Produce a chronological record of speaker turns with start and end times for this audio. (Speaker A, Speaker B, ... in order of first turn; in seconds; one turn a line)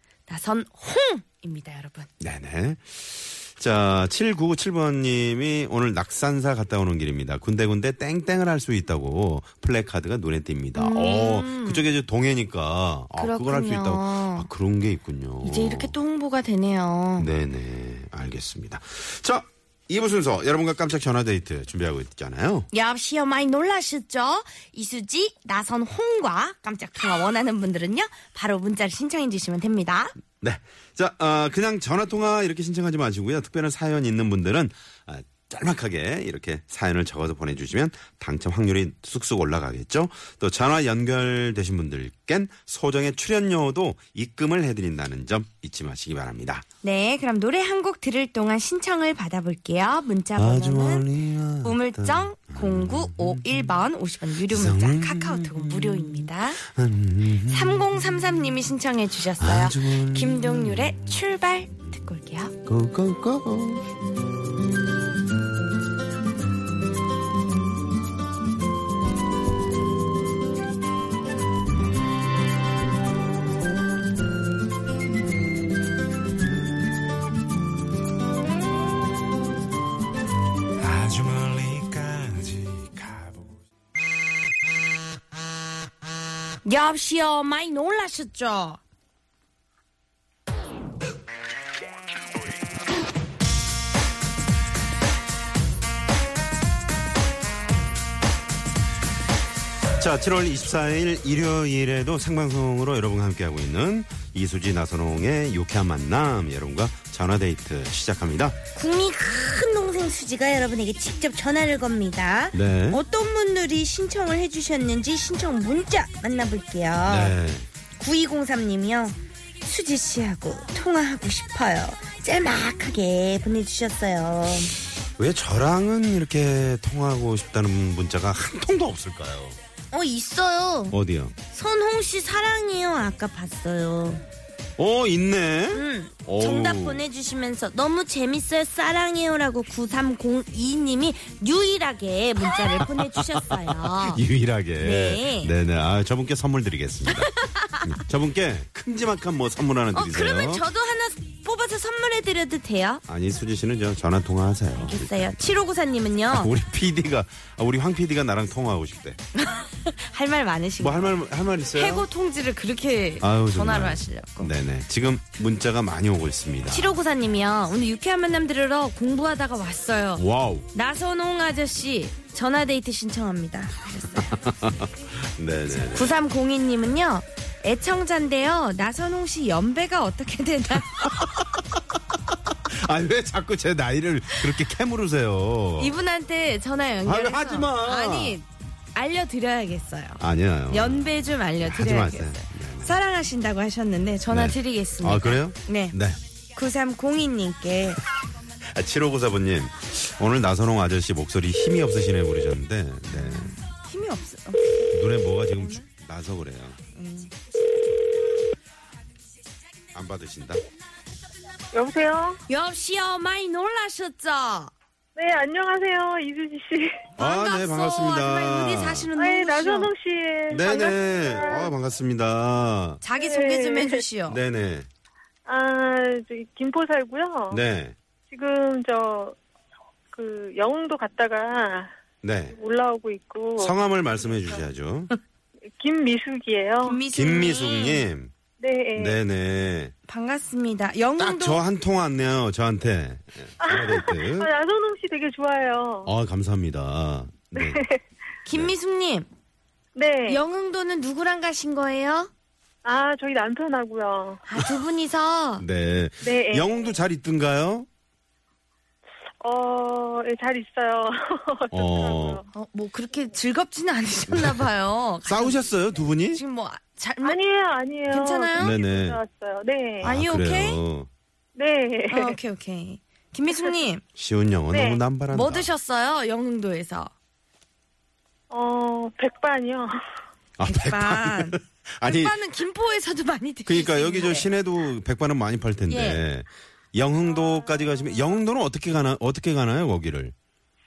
Speaker A: 0.3-2.1
Speaker B: 2.2-16.0
Speaker A: 10.8-11.9
Speaker A: 13.2-14.5
Speaker A: 15.4-17.3
Speaker B: 17.2-22.7
Speaker A: 22.7-30.1
Speaker B: 30.4-46.6
Speaker A: 46.8-51.1
Speaker B: 50.4-53.9
Speaker A: 51.6-56.6
Speaker B: 54.4-57.9
Speaker A: 57.5-62.5
Speaker B: 59.4-61.2
Speaker B: 62.7-63.9
Speaker C: 80.8-83.5
Speaker A: 86.7-88.8
Speaker B: 100.0-108.6
Speaker A: 108.8-117.4
Speaker B: 112.5-113.0
Speaker B: 117.0-117.7
Speaker A: 118.0-124.8
Speaker B: 125.2-129.6
Speaker A: 129.9-134.2
Speaker B: 130.9-131.3
Speaker B: 134.8-137.1
Speaker A: 135.7-144.2
Speaker B: 142.4-147.3
Speaker A: 144.8-145.5
Speaker A: 147.1-147.9
Speaker B: 147.8-150.7
Speaker A: 149.9-153.0
Speaker B: 153.1-155.7
Speaker A: 154.7-156.5
Speaker B: 156.3-159.2
Speaker A: 159.4-161.2
Speaker B: 160.8-162.1
Speaker A: 161.8-164.5
Speaker B: 163.2-166.9
Speaker A: 166.7-174.3
Speaker B: 170.2-170.7
Speaker B: 174.1-176.2
Speaker A: 175.9-181.1
Speaker B: 181.0-181.6
Speaker B: 182.5-186.0
Speaker A: 185.8-196.0
Speaker B: 187.1-188.4
Speaker B: 190.2-193.0
Speaker B: 194.3-196.2
Speaker A: 196.5-198.0
Speaker B: 198.7-203.6
Speaker A: 203.1-204.9
Speaker B: 204.9-206.8
Speaker A: 205.6-205.8
Speaker A: 206.9-207.4
Speaker B: 209.9-210.6
Speaker D: 211.7-212.4
Speaker A: 212.5-214.7
Speaker D: 215.2-217.0
Speaker B: 217.2-219.1
Speaker A: 217.2-219.9
Speaker D: 219.2-221.7
Speaker B: 220.5-223.0
Speaker A: 223.0-224.4
Speaker D: 223.2-224.0
Speaker B: 224.3-224.9
Speaker D: 225.5-227.6
Speaker B: 227.5-227.9
Speaker D: 228.3-229.4
Speaker D: 230.1-231.9
Speaker B: 232.2-232.6
Speaker D: 232.5-233.8
Speaker B: 233.6-235.1
Speaker D: 235.8-237.0
Speaker A: 236.8-238.1
Speaker B: 237.1-238.3
Speaker D: 238.6-239.2
Speaker B: 238.9-239.9
Speaker A: 240.1-241.6
Speaker B: 241.2-244.5
Speaker D: 243.6-246.1
Speaker B: 246.0-247.8
Speaker D: 247.6-248.0
Speaker A: 248.4-249.3
Speaker D: 249.9-250.4
Speaker A: 250.3-252.3
Speaker D: 252.8-254.4
Speaker A: 254.5-255.7
Speaker B: 255.6-257.9
Speaker D: 256.2-256.9
Speaker D: 259.4-262.4
Speaker B: 261.7-262.4
Speaker A: 262.5-265.7
Speaker B: 264.3-264.7
Speaker B: 265.2-266.4
Speaker A: 266.3-267.4
Speaker D: 267.2-270.1
Speaker A: 268.1-268.7
Speaker B: 268.6-269.2
Speaker B: 270.0-271.1
Speaker A: 270.0-270.8
Speaker D: 271.6-272.4
Speaker A: 272.1-274.0
Speaker B: 274.1-275.7
Speaker D: 274.7-275.0
Speaker A: 275.3-277.1
Speaker D: 278.5-280.0
Speaker B: 280.6-282.4
Speaker A: 280.6-284.5
Speaker B: 283.7-290.3
Speaker A: 285.9-286.2